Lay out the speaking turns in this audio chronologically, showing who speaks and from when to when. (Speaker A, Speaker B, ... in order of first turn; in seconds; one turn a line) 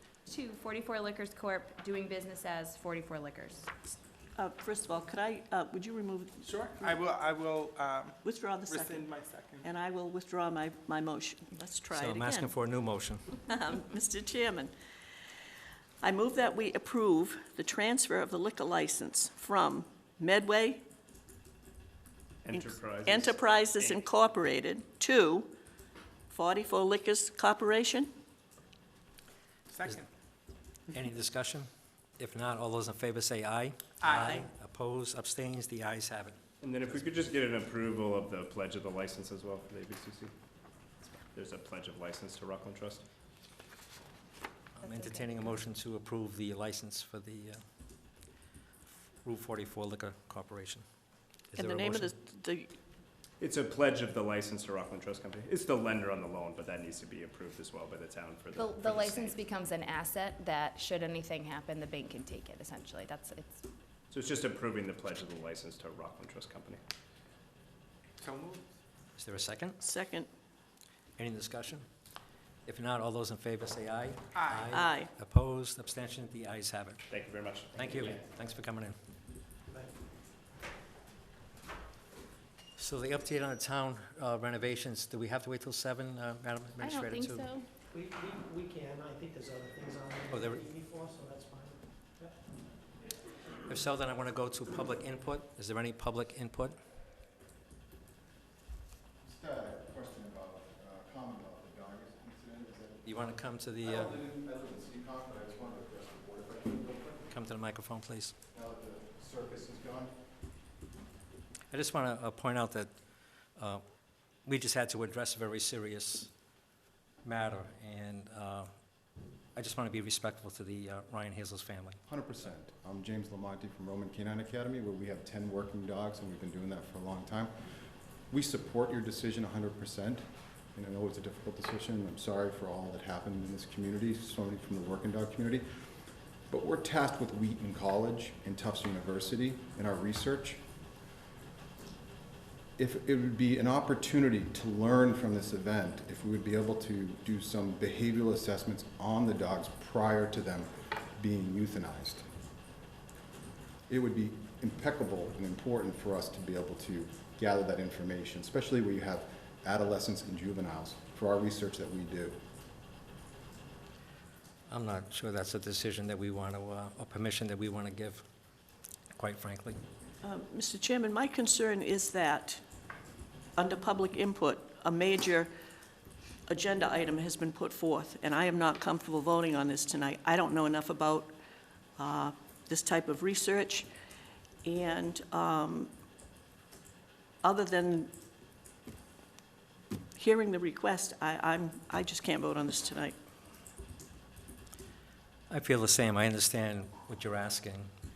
Speaker A: 0.2-3.7
Speaker B: 4.3-7.0
Speaker C: 6.4-9.7
Speaker B: 8.2-9.1
Speaker B: 9.6-12.5
Speaker D: 11.9-13.2
Speaker B: 13.4-14.7
Speaker B: 16.0-20.8
Speaker E: 22.4-23.4
Speaker B: 22.5-25.5
Speaker B: 26.3-28.1
Speaker C: 29.7-30.1
Speaker D: 30.9-31.7
Speaker D: 32.2-37.0
Speaker C: 34.0-34.4
Speaker B: 34.0-34.4
Speaker E: 36.6-40.3
Speaker E: 41.3-43.0
Speaker D: 44.8-47.6
Speaker A: 44.8-45.5
Speaker D: 49.2-50.8
Speaker D: 51.5-52.1
Speaker B: 51.6-52.8
Speaker E: 53.4-59.3
Speaker A: 58.5-63.6
Speaker E: 64.1-66.8
Speaker C: 68.2-68.7
Speaker D: 69.2-69.8
Speaker B: 69.8-70.3
Speaker D: 71.2-71.8
Speaker D: 72.7-77.1
Speaker C: 74.3-74.7
Speaker B: 74.7-75.1
Speaker E: 77.1-78.2
Speaker D: 77.7-78.9
Speaker D: 82.8-87.5
Speaker A: 86.8-87.7
Speaker F: 87.9-92.3
Speaker D: 90.3-90.7
Speaker D: 93.7-96.8
Speaker G: 99.2-103.3
Speaker D: 103.0-104.1
Speaker G: 103.8-107.3
Speaker D: 107.3-108.3
Speaker G: 108.5-110.1
Speaker D: 111.7-112.9
Speaker D: 113.5-113.8
Speaker D: 114.4-116.3
Speaker D: 117.2-118.7
Speaker D: 119.5-122.0
Speaker G: 122.1-127.5
Speaker G: 128.3-135.6
Speaker G: 136.5-140.6
Speaker G: 142.8-152.2
Speaker G: 153.9-162.4
Speaker D: 164.7-168.2
Speaker D: 169.1-169.8
Speaker B: 170.2-172.6
Speaker B: 173.6-175.5
Speaker B: 176.5-181.3
Speaker B: 182.0-183.9
Speaker B: 184.6-185.9
Speaker B: 187.4-188.1
Speaker B: 190.2-193.1
Speaker D: 195.5-197.9